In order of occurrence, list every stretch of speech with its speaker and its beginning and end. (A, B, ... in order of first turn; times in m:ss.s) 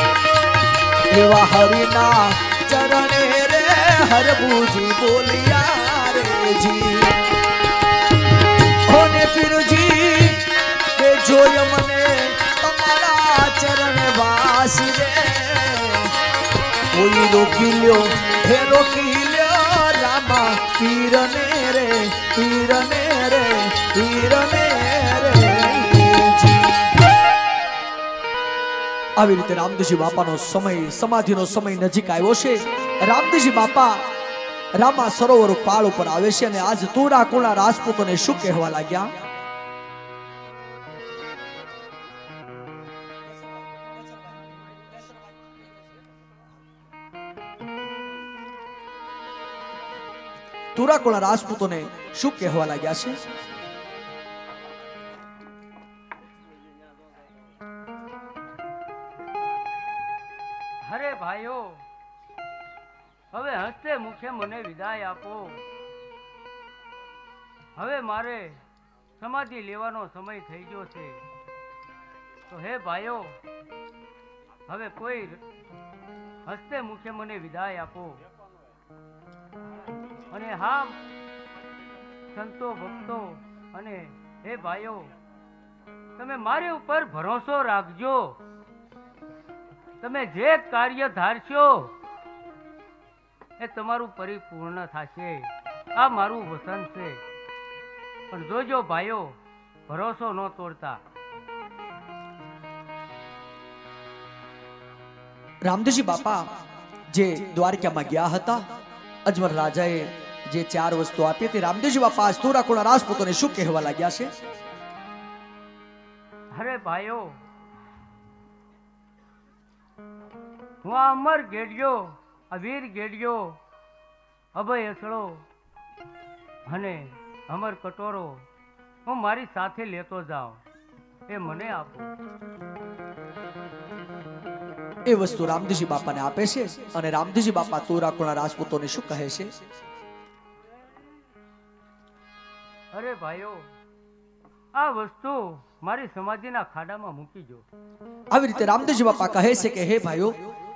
0:01.1-0:07.3 A
0:08.9-0:16.1 A
0:16.9-0:26.9 A
0:29.2-0:34.1 A
0:34.8-0:39.1 A
0:50.7-0:53.2 A
1:00.8-1:01.8 B
1:03.3-1:05.6 B
1:07.8-1:08.6 B
1:09.2-1:11.2 B
1:12.5-1:13.4 B
1:14.7-1:15.4 B
1:16.4-1:18.2 B
1:20.3-1:21.0 B
1:22.3-1:25.1 B
1:26.2-1:28.4 B
1:30.0-1:32.0 B
1:33.6-1:37.2 B
1:38.3-1:41.0 B
1:45.6-1:46.5 A
1:47.1-1:48.7 A
1:49.2-1:54.3 A
1:56.5-1:57.4 B
2:00.8-2:03.6 B
2:04.5-2:05.4 B
2:06.6-2:08.5 B
2:09.0-2:10.6 B
2:11.3-2:12.1 B
2:15.0-2:19.5 A
2:22.9-2:23.7 B
2:24.7-2:27.6 B
2:28.3-2:30.4 A